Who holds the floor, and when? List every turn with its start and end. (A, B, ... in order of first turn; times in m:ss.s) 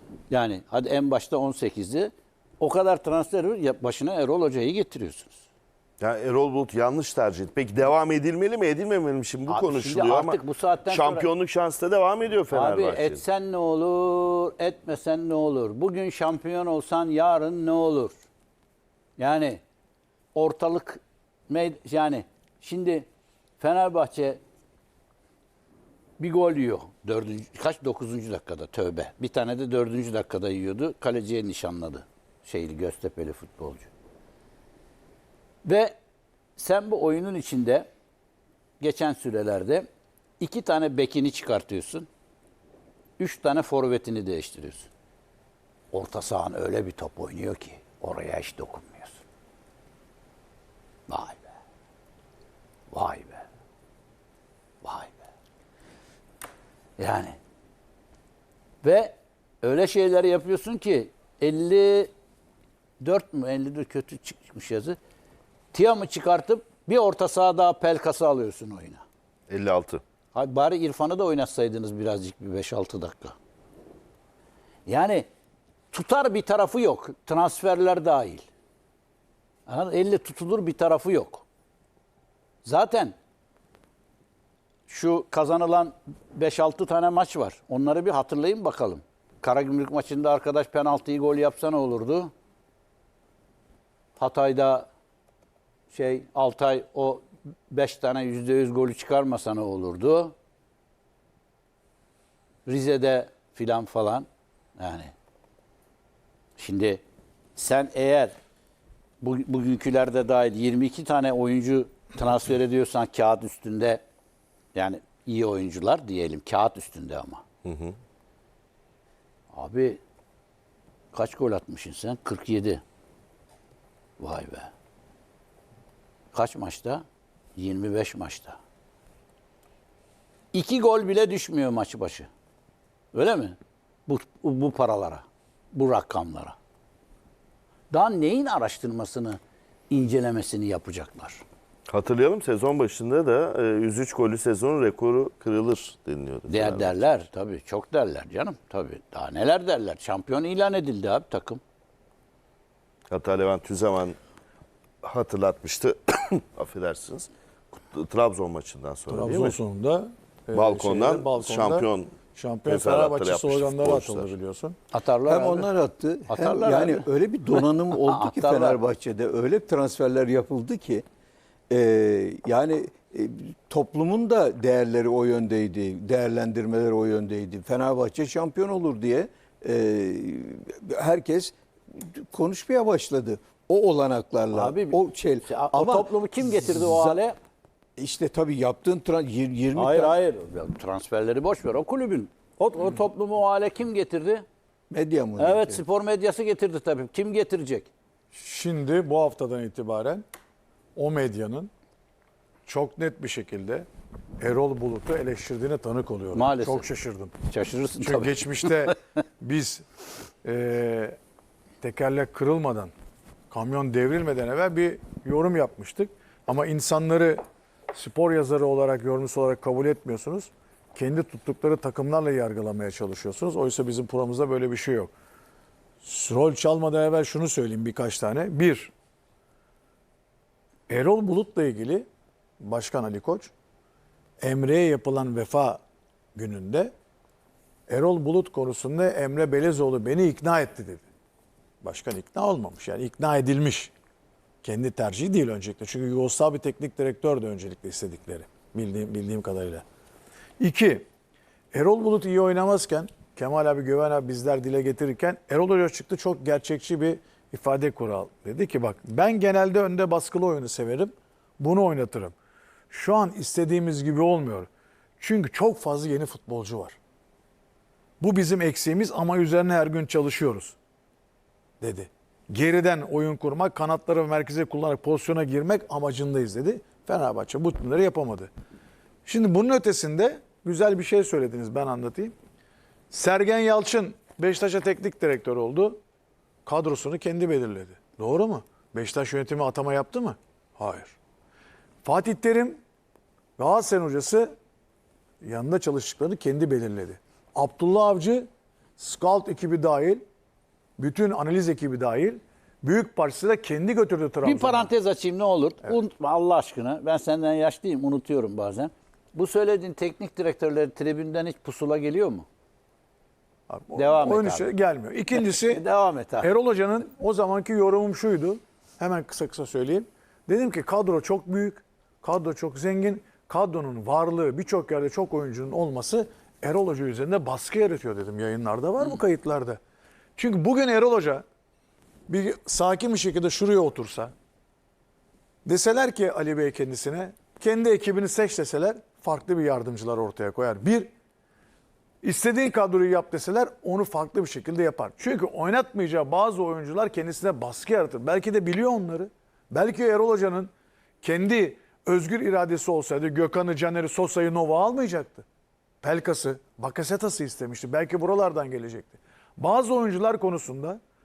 0:00.3-0:05.4 A
0:06.0-0:13.2 B
0:09.5-0:11.3 A
0:12.5-0:18.2 A
0:19.2-0:19.6 A
0:20.4-0:23.1 A
0:23.6-0:24.4 A
0:26.2-0:33.9 A
0:35.6-0:36.0 A
0:36.6-0:37.9 A
0:38.8-0:39.9 A
0:40.4-0:42.1 A
0:43.2-0:44.9 A
0:45.9-0:49.2 A
0:51.1-0:51.4 A
0:52.9-0:53.4 A
0:54.8-0:55.2 A
0:57.0-0:57.4 A
0:58.8-1:02.1 A
1:03.0-1:05.0 A
1:05.7-1:09.0 A
1:09.5-1:10.0 B
1:10.3-1:13.4 A
1:14.9-1:15.2 A
1:15.9-1:18.5 A
1:19.7-1:21.4 A
1:22.6-1:23.2 A
1:24.9-1:32.3 A
1:34.2-1:34.9 A
1:35.9-1:40.3 A
1:42.7-1:45.1 A
1:46.6-1:47.0 A
1:47.6-1:48.3 A
1:49.2-1:54.0 A
1:54.7-1:57.4 A
1:57.7-1:57.9 B
1:59.5-2:00.0 A
2:01.1-2:02.8 A
2:04.2-2:04.7 A
2:06.3-2:07.0 A
2:07.6-2:08.6 A
2:10.5-2:12.3 A
2:13.1-2:16.6 A
2:17.9-2:19.4 A
2:19.9-2:21.4 A
2:21.9-2:27.0 B
2:26.5-2:31.6 A
2:33.1-2:34.2 B
2:35.0-2:37.3 B
2:37.9-2:39.6 B
2:39.1-2:44.8 C
2:40.5-2:42.1 B
2:42.7-2:44.3 B
2:44.9-2:45.7 A
2:45.2-2:51.0 D
2:46.3-2:48.8 A
2:51.7-3:07.2 D
3:04.5-3:07.4 A
3:08.0-3:10.1 D
3:09.7-3:14.4 A
3:14.9-3:15.8 D
3:15.4-3:17.9 A
3:18.3-3:20.2 C
3:21.0-3:21.7 C
3:22.7-3:23.9 C
3:24.4-3:27.3 C
3:26.3-3:26.9 A
3:27.5-3:28.7 A
3:28.0-3:29.8 C
3:30.4-3:31.2 C
3:31.8-3:32.9 C
3:33.5-3:37.4 C
3:37.9-3:45.1 C
3:46.0-3:48.9 C
3:50.9-3:52.1 C
3:52.6-3:53.5 C
3:54.4-3:55.8 C
3:56.4-3:56.9 C
3:57.9-4:01.0 C
4:01.8-4:03.9 C
4:04.6-4:09.8 C
4:10.6-4:11.1 C
4:11.7-4:22.4 C
4:22.9-4:24.7 C
4:25.2-4:27.0 C
4:28.2-4:30.8 C
4:31.8-4:38.5 C
4:39.2-4:42.3 C
4:43.1-4:46.0 C
4:46.6-4:51.2 C
4:52.0-4:52.8 C
4:53.6-4:54.5 C
4:55.4-4:58.5 C
4:59.0-5:00.2 C
5:01.0-5:04.9 C
5:04.4-5:12.5 A
5:13.7-5:15.8 C
5:14.0-5:14.7 A
5:15.4-5:16.5 A
5:16.4-5:29.8 C
5:30.4-5:31.4 C
5:32.3-5:34.3 C
5:35.6-5:41.1 C
5:42.2-5:50.7 C
5:51.2-5:55.5 C
5:56.0-6:01.0 C